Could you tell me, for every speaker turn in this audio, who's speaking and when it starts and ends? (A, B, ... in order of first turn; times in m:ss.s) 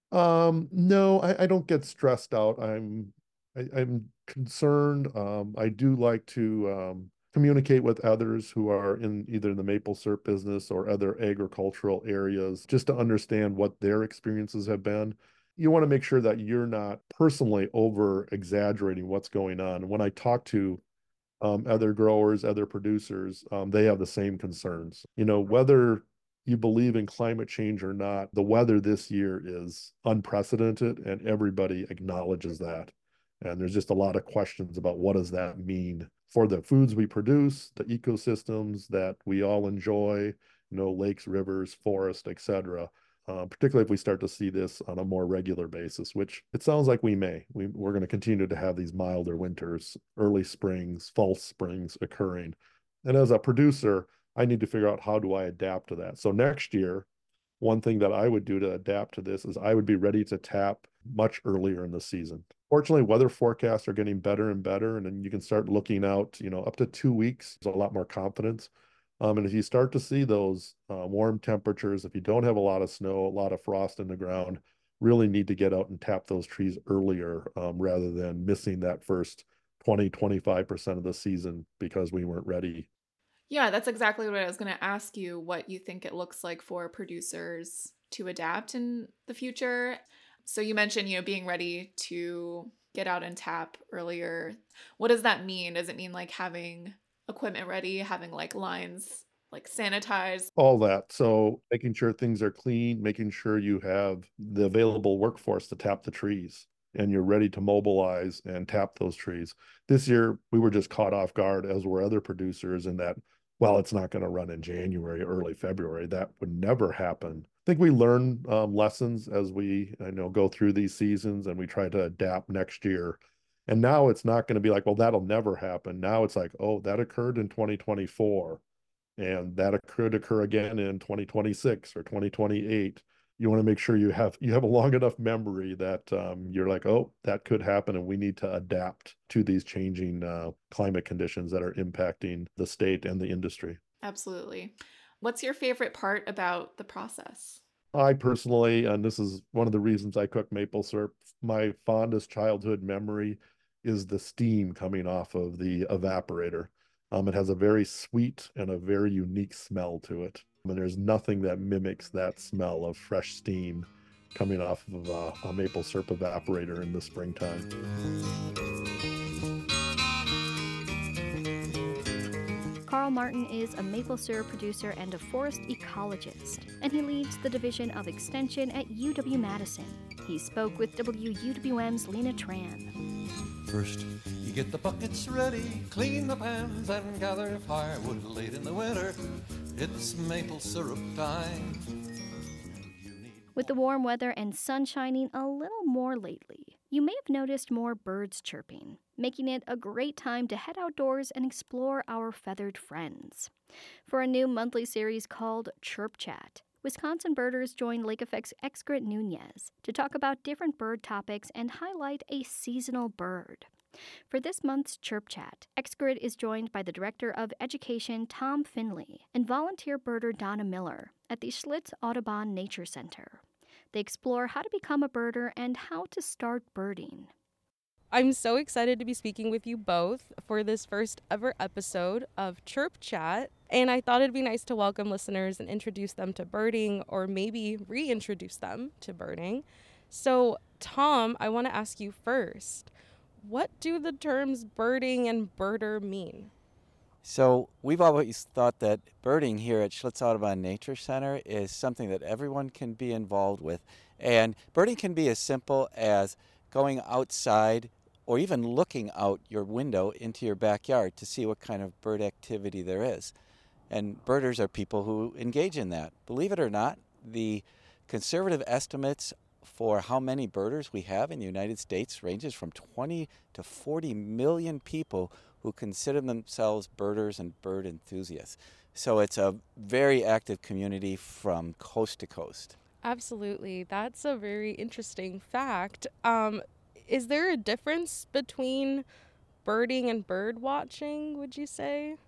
0:00.1-0:20.8 A
0:21.4-0:57.1 A
0:57.6-1:22.9 A
1:23.5-1:40.5 B
1:40.6-2:08.6 A
2:09.2-2:23.8 A
2:24.0-2:27.6 B
2:27.9-2:47.7 A
2:52.8-3:02.9 C
3:03.7-3:11.9 D
3:12.7-3:13.7 D
3:13.6-3:23.5 C
3:24.0-3:33.7 C
3:34.3-3:47.3 C
3:48.1-4:06.5 E
4:07.2-4:23.3 F
4:23.9-4:42.8 F
4:43.0-4:49.0 E
4:49.6-4:52.2 E